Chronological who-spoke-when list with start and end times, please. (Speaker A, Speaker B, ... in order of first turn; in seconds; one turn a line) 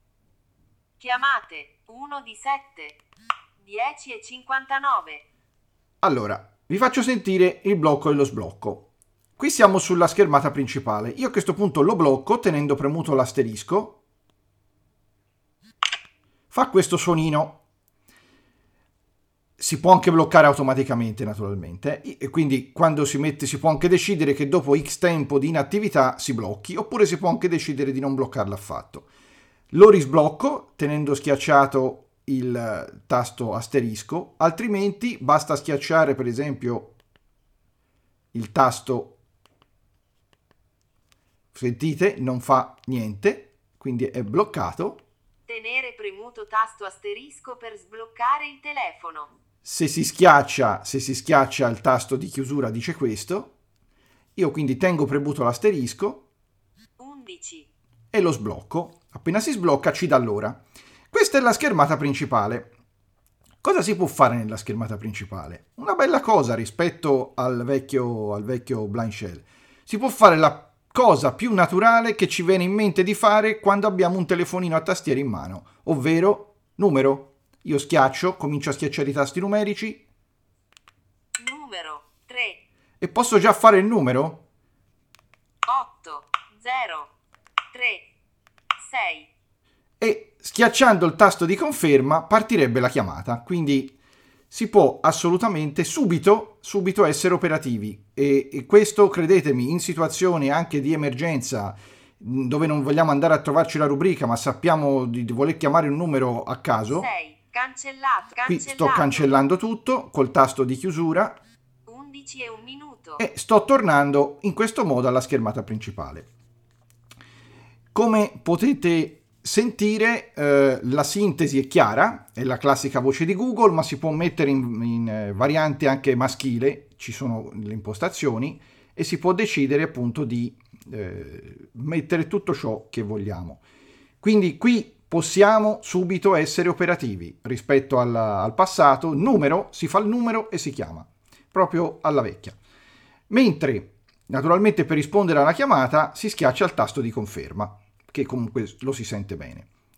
Speaker A: 1.0-3.0
Speaker A: 3.6-5.2
Speaker B: 6.0-8.9
Speaker B: 9.4-14.0
Speaker B: 16.5-17.6
Speaker B: 19.6-29.1
Speaker B: 29.7-36.9
Speaker B: 38.3-39.1
Speaker B: 41.5-45.0
Speaker A: 45.5-49.3
Speaker B: 49.6-53.5
Speaker B: 54.4-56.2
Speaker A: 57.0-57.7
Speaker B: 58.1-62.7
Speaker B: 63.6-80.0
Speaker A: 81.4-82.6
Speaker B: 83.0-84.4
Speaker A: 85.7-87.1
Speaker A: 87.7-88.1
Speaker A: 88.8-89.3
Speaker B: 90.0-94.0
Speaker B: 94.5-107.1
Speaker A: 106.9-109.4
Speaker B: 108.5-111.4
Speaker A: 111.9-113.2
Speaker B: 113.2-116.3
Speaker B: 117.9-133.6
Speaker B: 134.2-142.6
Speaker B: 143.3-149.7